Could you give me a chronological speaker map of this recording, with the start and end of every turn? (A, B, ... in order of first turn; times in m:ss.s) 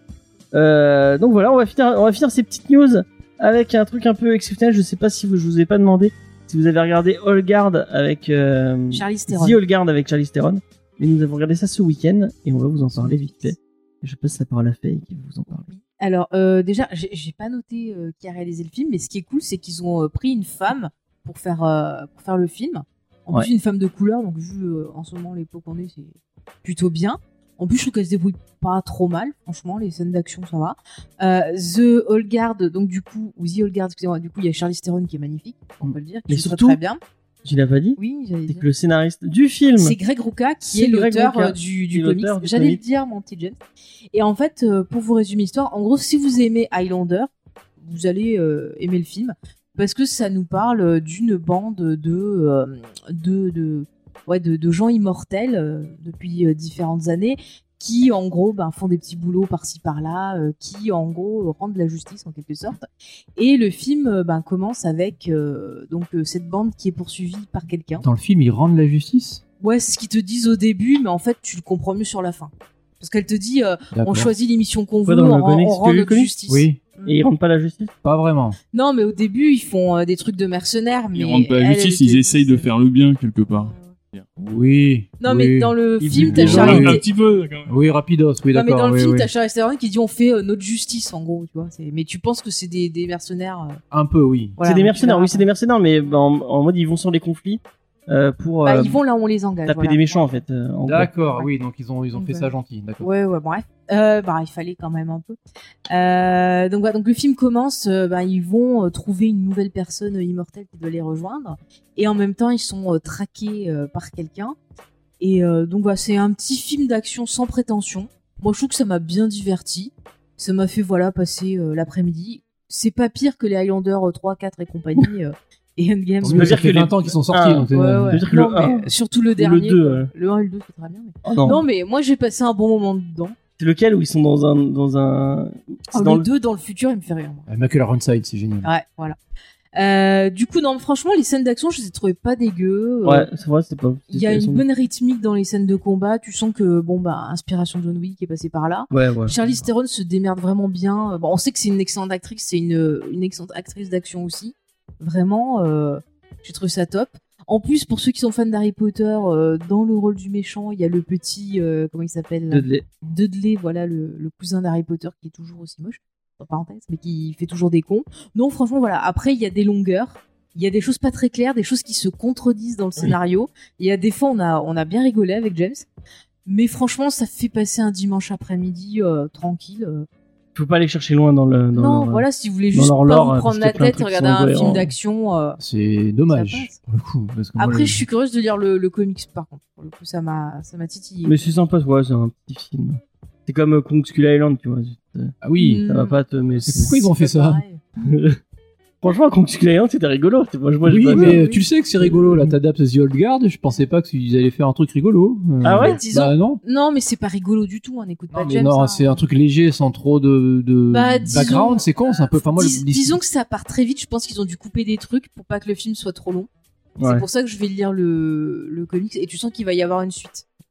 0:00.5-0:15.7 A
0:08.9-0:09.6 B
0:12.9-0:13.5 B
0:15.6-0:37.0 B
0:35.8-0:36.8 A
0:37.4-0:40.0 A
0:38.0-0:38.6 B
0:39.8-0:43.6 B
0:40.6-0:42.8 A
0:44.1-1:02.8 B
1:03.4-1:08.0 B
1:08.0-1:09.4 C
1:09.6-1:17.2 B
1:13.9-1:14.3 C
1:15.0-1:16.3 A
1:16.5-1:16.8 C
1:17.0-1:17.9 A
1:18.0-1:18.6 C
1:18.7-1:22.7 B
1:21.1-1:24.3 D
1:23.5-1:23.9 B
1:24.4-1:27.0 C
1:25.2-1:27.0 B
1:26.0-1:26.9 A
1:26.2-1:27.8 D
1:27.7-1:29.3 C
1:28.5-1:33.8 B
1:33.9-1:34.6 C
1:34.6-1:35.5 B
1:34.6-1:39.0 A
1:38.6-1:40.3 B
1:39.6-1:41.1 A
1:40.8-1:43.1 C
1:42.1-1:45.4 B
1:45.9-1:54.6 B
1:55.2-2:06.6 B
2:06.2-2:08.2 C
2:06.3-2:10.1 A
2:07.7-2:13.4 B
2:11.2-2:11.6 A
2:13.6-2:16.3 A
2:15.9-2:17.4 B
2:17.5-2:18.7 C
2:18.6-2:19.2 B
2:19.7-2:23.3 B
2:23.0-2:24.6 A
2:24.1-2:55.8 B
2:28.9-2:29.4 A
2:42.5-2:42.8 A
2:56.4-3:00.1 B
3:00.5-3:04.9 A
3:01.7-3:05.6 B
3:05.6-3:08.0 C
3:06.3-3:06.8 B
3:07.6-3:11.4 B
3:11.2-3:15.4 A
3:15.4-3:15.8 C
3:15.6-3:16.2 B
3:15.9-3:17.0 A
3:16.6-3:17.6 C
3:16.8-3:17.8 B
3:18.0-3:18.4 A
3:19.0-3:21.4 A
3:20.8-3:26.6 C
3:21.1-3:21.7 B
3:22.0-3:22.5 A
3:25.6-3:26.0 A
3:25.8-3:29.2 B
3:28.3-3:33.2 C
3:30.9-3:36.5 B
3:37.0-3:37.3 A
3:37.0-3:40.4 B